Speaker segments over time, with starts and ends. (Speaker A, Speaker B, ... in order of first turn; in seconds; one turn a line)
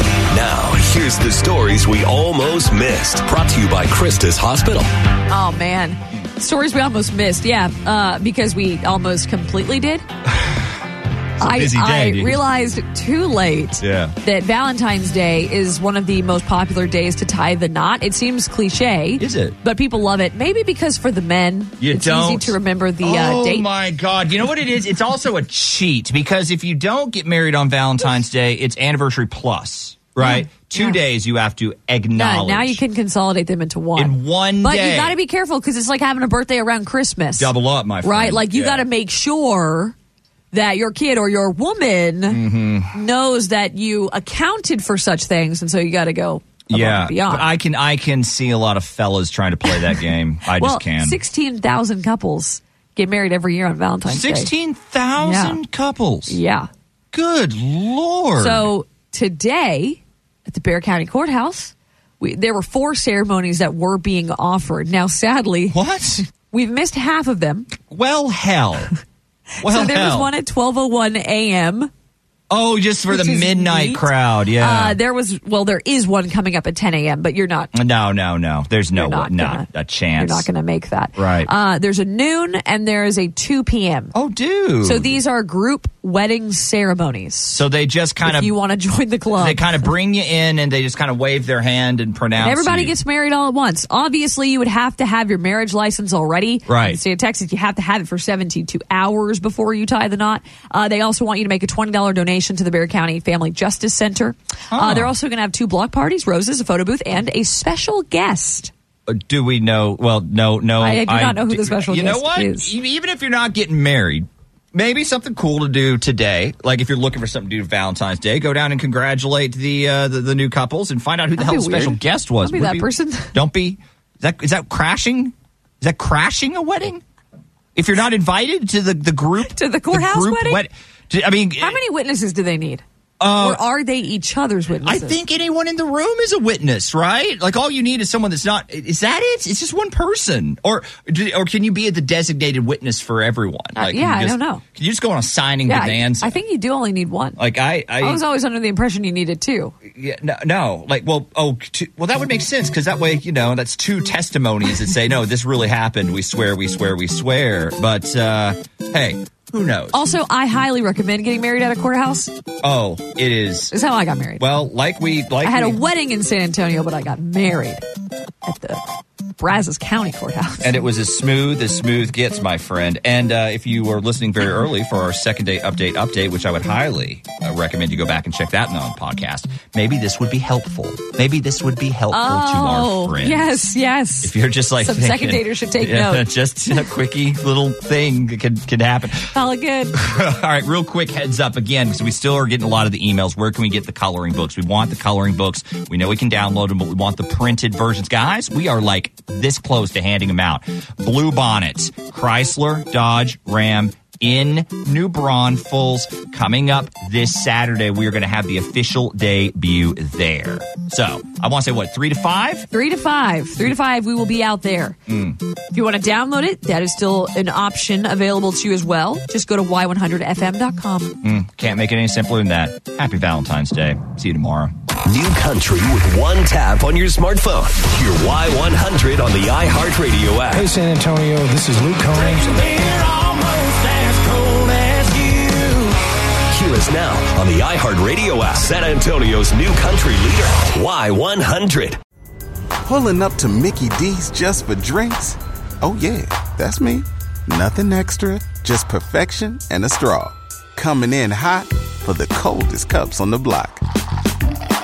Speaker A: 0.3-4.9
Speaker B: 5.3-10.1
Speaker C: 10.3-10.7
Speaker C: 11.4-12.4
Speaker B: 11.4-23.7
Speaker C: 13.8-14.1
Speaker C: 19.2-19.6
Speaker C: 21.8-32.8
Speaker B: 30.2-31.0
Speaker B: 32.2-37.5
Speaker C: 34.0-35.2
Speaker C: 37.4-38.9
Speaker B: 38.0-40.0
Speaker B: 40.5-42.4
Speaker C: 42.3-42.9
Speaker B: 42.9-47.5
Speaker C: 46.7-51.2
Speaker B: 49.7-50.0
Speaker B: 50.6-54.5
Speaker C: 54.1-56.4
Speaker B: 55.2-55.6
Speaker B: 56.3-56.7
Speaker C: 57.1-58.7
Speaker B: 58.4-65.8
Speaker C: 65.7-66.2
Speaker B: 66.3-67.7
Speaker C: 67.8-68.9
Speaker B: 69.6-71.9
Speaker C: 69.6-70.3
Speaker C: 72.5-75.0
Speaker B: 73.1-74.1
Speaker B: 74.6-77.7
Speaker C: 77.7-80.5
Speaker B: 78.9-79.7
Speaker B: 80.2-84.1
Speaker C: 81.2-81.5
Speaker C: 84.1-85.1
Speaker B: 84.8-87.6
Speaker C: 87.5-88.5
Speaker B: 88.2-89.9
Speaker C: 89.4-92.9
Speaker B: 92.4-108.7
Speaker C: 96.7-97.0
Speaker C: 104.7-105.1
Speaker C: 109.1-127.0
Speaker B: 110.8-112.7
Speaker B: 121.4-123.3
Speaker C: 127.8-131.8
Speaker B: 129.5-130.6
Speaker B: 131.6-135.2
Speaker C: 133.2-133.6
Speaker C: 134.8-146.4
Speaker B: 143.8-144.6
Speaker B: 145.7-147.4
Speaker C: 147.4-148.2
Speaker B: 148.0-149.7
Speaker C: 149.9-160.0
Speaker B: 159.9-162.3
Speaker C: 162.6-163.7
Speaker B: 163.7-164.4
Speaker C: 164.4-165.8
Speaker B: 165.4-167.8
Speaker B: 168.4-168.8
Speaker B: 169.4-170.8
Speaker C: 170.6-183.6
Speaker B: 182.1-186.2
Speaker C: 184.2-189.3
Speaker B: 189.3-190.0
Speaker C: 190.0-212.7
Speaker B: 212.7-215.0
Speaker C: 215.1-215.4
Speaker B: 215.7-221.2
Speaker C: 221.2-224.7
Speaker A: 225.1-230.7
Speaker D: 230.5-232.5
Speaker C: 232.2-233.2
Speaker A: 232.6-235.6
Speaker C: 234.5-234.9
Speaker A: 236.5-242.0
Speaker E: 242.8-253.8